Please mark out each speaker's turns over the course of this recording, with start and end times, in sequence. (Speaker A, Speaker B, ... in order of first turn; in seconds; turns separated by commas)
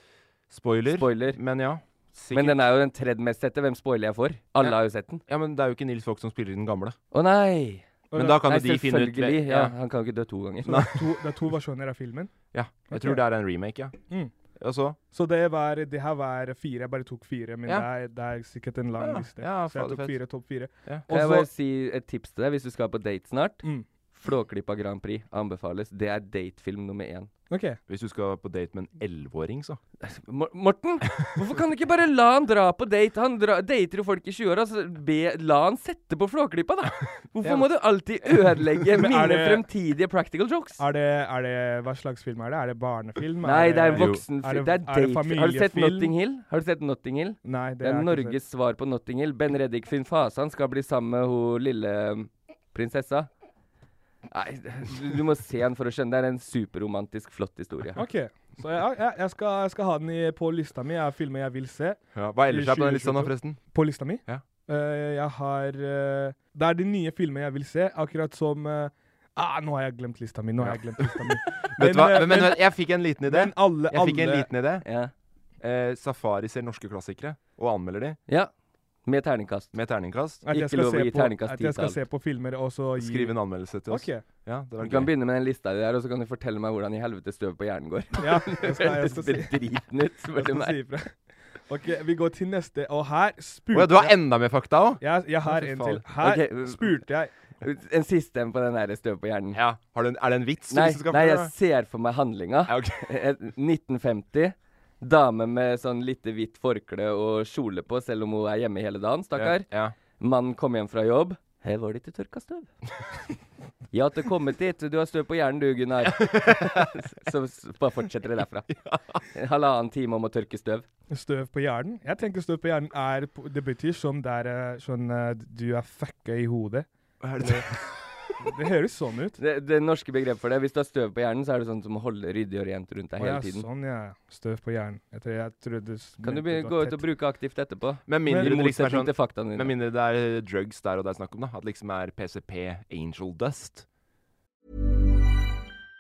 Speaker A: 0.5-2.7, Speaker B: 0.9-1.4, Speaker B: 2.3-5.2, Speaker A: 5.3-7.0, Speaker B: 7.1-7.9, Speaker C: 8.1-8.4, Speaker A: 8.2-9.7, Speaker B: 8.4-10.8, Speaker C: 10.7-12.3, Speaker A: 10.7-11.1, Speaker A: 12.5-14.0, Speaker C: 12.9-13.2, Speaker A: 14.6-15.0, Speaker C: 15.1-21.5, Speaker A: 19.0-20.2, Speaker B: 21.1-23.6, Speaker B: 24.1-27.3, Speaker C: 27.5-27.8, Speaker A: 27.9-29.8, Speaker B: 30.0-40.8, Speaker A: 37.4-37.7, Speaker A: 38.2-38.8, Speaker C: 39.0-39.6, Speaker C: 40.8-46.1, Speaker B: 43.4-53.3, Speaker A: 43.9-44.2, Speaker C: 47.4-48.4, Speaker B: 54.3-58.0, Speaker C: 58.0-72.7, Speaker A: 62.1-63.6, Speaker A: 70.6-74.8, Speaker C: 73.2-74.5, Speaker B: 74.8-75.1, Speaker A: 75.6-78.2, Speaker B: 79.1-79.7, Speaker A: 79.7-80.4, Speaker B: 80.5-82.0, Speaker C: 80.5-83.3, Speaker A: 83.0-85.1, Speaker C: 83.9-84.2, Speaker B: 84.8-90.8, Speaker C: 88.2-89.6, Speaker C: 90.3-91.1, Speaker C: 91.7-94.2, Speaker A: 93.7-96.0, Speaker C: 95.0-97.3, Speaker B: 96.2-97.0, Speaker B: 97.6-99.6, Speaker A: 99.5-101.5, Speaker B: 100.7-109.7, Speaker A: 102.7-103.1, Speaker A: 109.4-110.0, Speaker B: 110.2-112.7, Speaker B: 113.9-118.7, Speaker A: 116.1-116.9, Speaker A: 118.7-119.2, Speaker B: 119.3-120.9, Speaker C: 121.1-126.9, Speaker A: 127.2-127.9, Speaker C: 127.4-127.7, Speaker C: 128.4-129.4, Speaker B: 129.4-133.7, Speaker C: 133.2-137.0, Speaker B: 136.2-139.7, Speaker A: 138.1-143.8, Speaker C: 138.3-138.6